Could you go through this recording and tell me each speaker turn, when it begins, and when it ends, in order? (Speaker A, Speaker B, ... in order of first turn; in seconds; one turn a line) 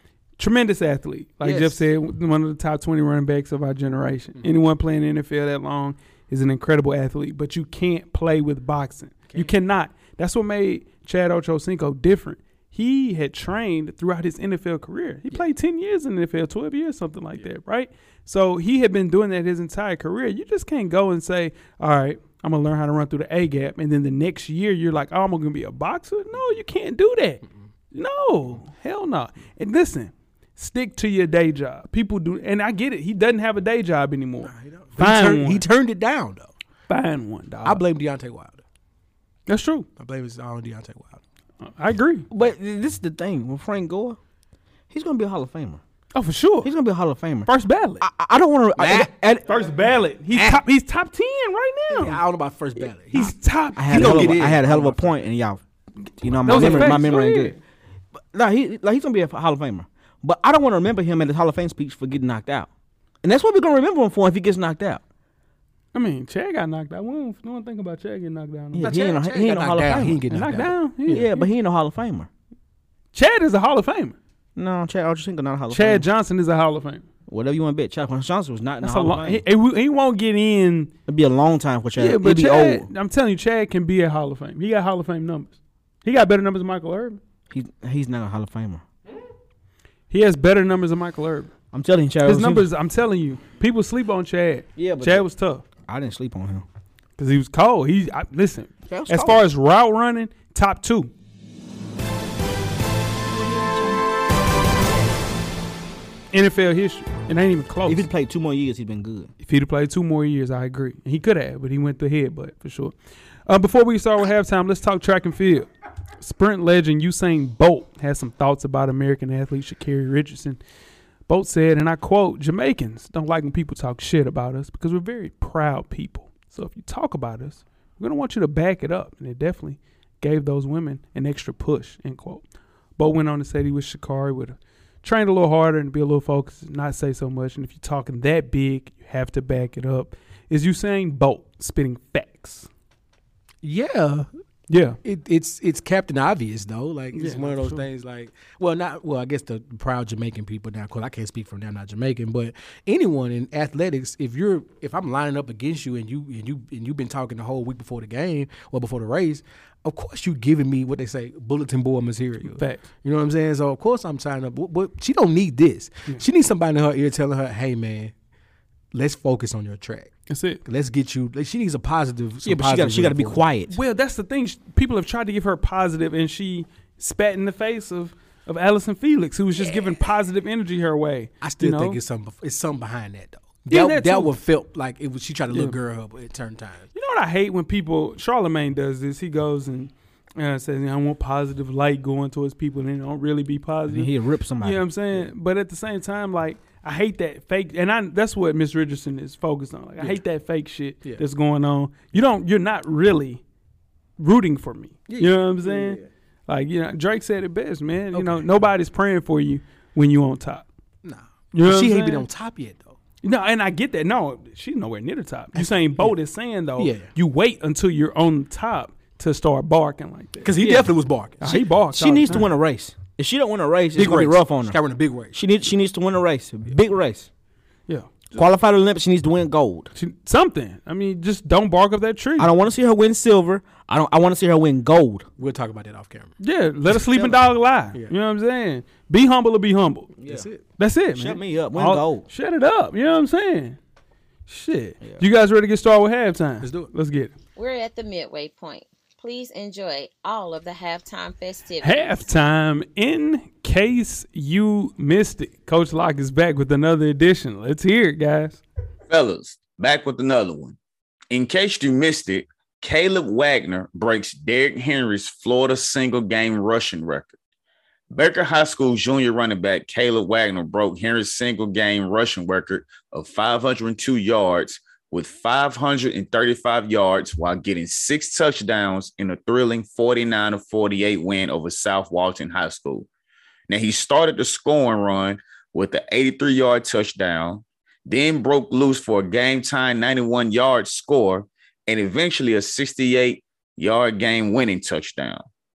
Speaker A: 0.4-35.7
Speaker B: 1.4-1.8
Speaker B: 34.4-36.5
Speaker A: 36.9-37.8
Speaker B: 37.6-38.6
Speaker A: 39.5-39.9
Speaker B: 40.0-41.2
Speaker A: 41.6-42.3
Speaker C: 42.3-44.2
Speaker C: 44.9-45.8
Speaker A: 46.1-46.7
Speaker C: 46.6-49.5
Speaker A: 47.5-48.0
Speaker B: 48.8-49.1
Speaker A: 49.5-52.2
Speaker B: 50.3-50.6
Speaker B: 51.9-53.4
Speaker A: 53.1-54.4
Speaker C: 53.8-55.6
Speaker B: 53.9-55.2
Speaker C: 56.2-57.6
Speaker A: 56.5-57.6
Speaker B: 56.5-57.0
Speaker C: 58.3-62.7
Speaker C: 63.2-65.0
Speaker A: 65.9-68.9
Speaker C: 68.7-70.3
Speaker B: 68.8-71.3
Speaker A: 70.3-71.5
Speaker C: 71.1-72.3
Speaker A: 73.1-74.2
Speaker C: 74.6-76.1
Speaker A: 75.7-77.1
Speaker C: 77.3-79.4
Speaker A: 78.8-80.9
Speaker C: 81.1-82.9
Speaker A: 82.0-87.2
Speaker C: 87.5-88.8
Speaker A: 90.1-91.5
Speaker C: 91.7-92.7
Speaker A: 92.2-95.6
Speaker C: 94.8-95.2
Speaker C: 95.9-96.7
Speaker A: 97.2-101.1
Speaker C: 98.9-99.4
Speaker C: 103.3-104.0
Speaker A: 106.3-108.1
Speaker C: 107.9-109.3
Speaker A: 109.4-120.6
Speaker A: 121.3-132.4
Speaker A: 133.0-142.7
Speaker B: 143.6-144.3
Speaker A: 144.7-145.0
Speaker B: 145.0-168.1
Speaker A: 147.1-147.8
Speaker A: 162.5-162.8
Speaker B: 168.9-170.1
Speaker A: 170.3-170.6
Speaker B: 170.7-173.4
Speaker C: 172.4-173.7
Speaker A: 173.7-182.0
Speaker B: 181.4-186.9
Speaker A: 183.7-184.3
Speaker A: 185.5-185.8
Speaker A: 186.9-194.1
Speaker C: 193.9-194.8
Speaker A: 194.6-203.4
Speaker A: 204.2-210.7
Speaker B: 205.1-206.1
Speaker B: 208.1-208.4
Speaker B: 211.0-213.0
Speaker A: 211.5-212.3
Speaker A: 213.2-220.5
Speaker B: 215.6-216.2
Speaker B: 216.8-217.1
Speaker B: 220.4-221.6
Speaker C: 220.6-220.9
Speaker A: 221.4-222.4
Speaker C: 221.5-224.8
Speaker B: 223.9-225.3
Speaker C: 225.3-227.3
Speaker A: 227.9-228.2
Speaker C: 228.3-229.9
Speaker A: 229.9-232.5
Speaker C: 232.4-235.3
Speaker B: 235.4-236.3
Speaker A: 236.4-240.1
Speaker C: 237.0-237.4
Speaker C: 240.2-240.5
Speaker B: 240.2-240.6
Speaker A: 240.8-243.8
Speaker C: 241.2-242.3
Speaker A: 244.5-247.3
Speaker B: 246.6-246.9
Speaker D: 247.6-252.3
Speaker A: 251.8-258.6
Speaker E: 259.1-260.8
Speaker E: 261.3-267.3
Speaker E: 268.1-283.1
Speaker E: 283.7-295.4